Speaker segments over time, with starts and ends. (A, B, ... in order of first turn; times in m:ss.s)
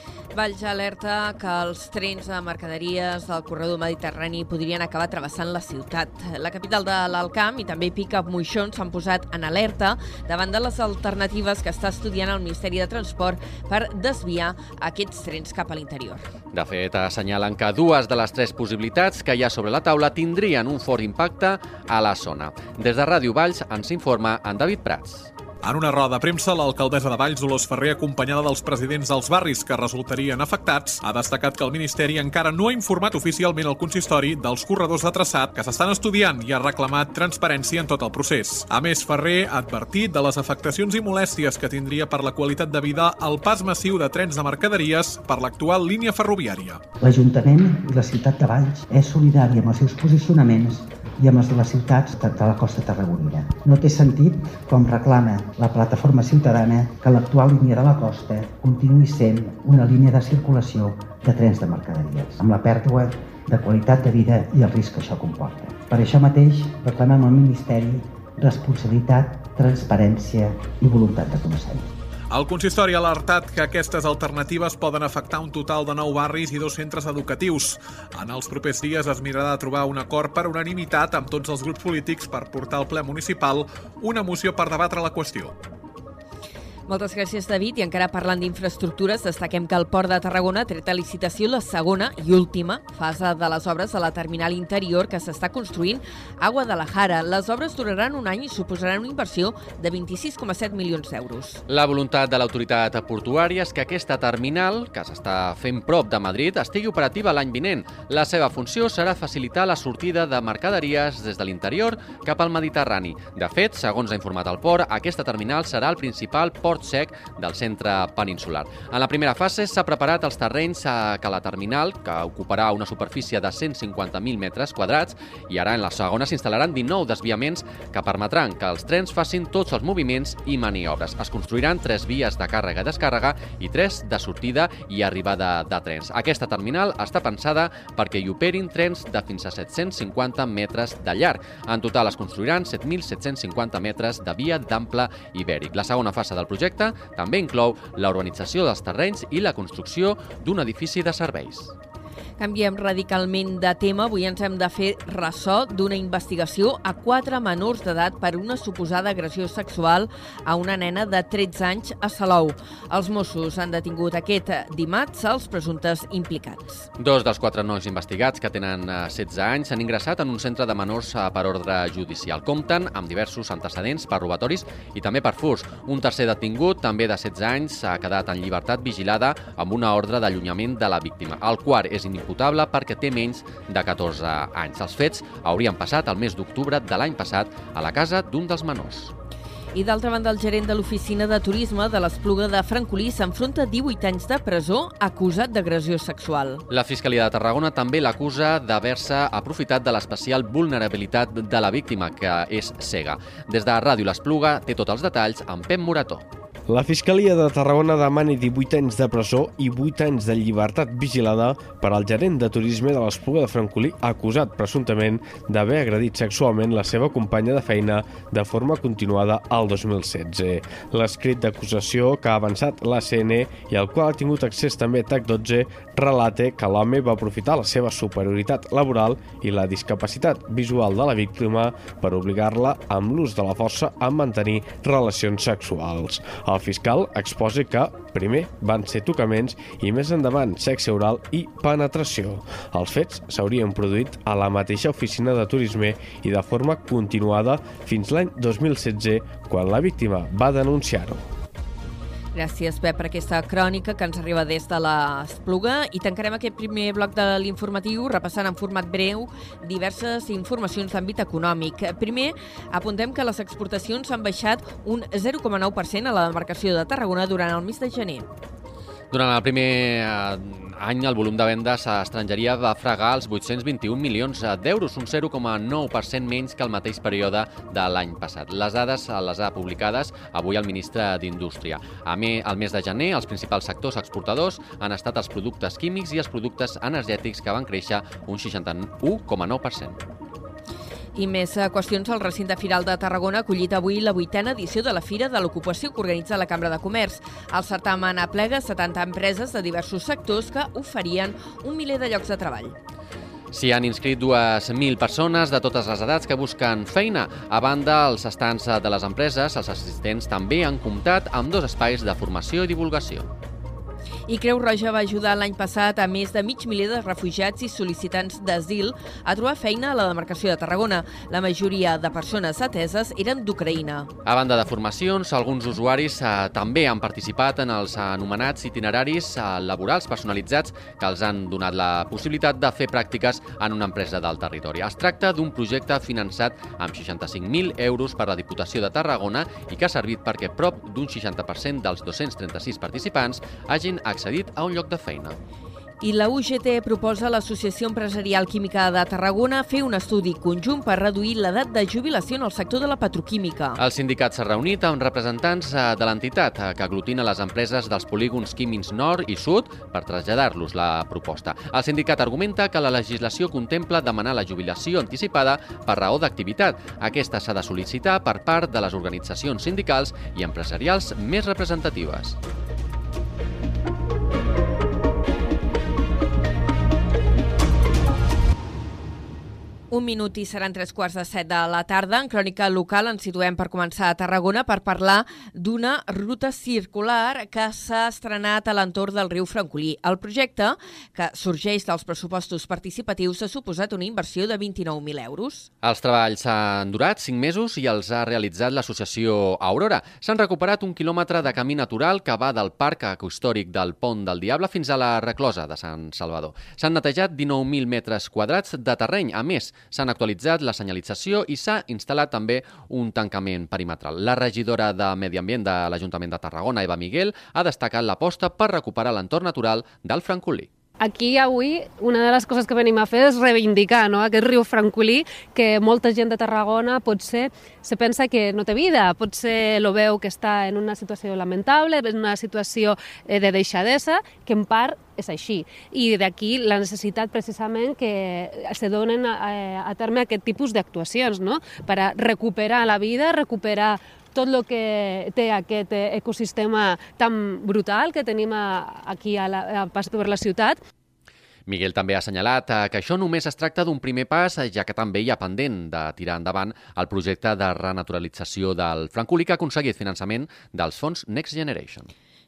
0:00.3-0:16.2 A
0:16.5-0:25.3 B
0:25.6-0:46.8 C
0:47.0-1:11.9 D
1:12.3-1:25.5 C
1:26.9-1:41.6 A
1:41.7-2:31.7 B
2:32.4-2:46.9 A
2:47.0-3:09.1 B
3:09.8-3:16.6 A
3:16.7-3:26.2 B
3:26.7-4:11.2 E
4:12.4-4:28.3 A
4:29.1-4:50.0 B
4:51.2-5:02.8 A
5:03.5-5:13.3 B
5:14.3-5:24.1 A
5:24.2-5:45.4 B
5:46.0-5:53.8 A
5:53.8-6:12.4 B
6:19.9-6:35.7 A
6:35.8-7:00.7 B
7:01.0-7:30.8 F
7:31.7-7:42.1 B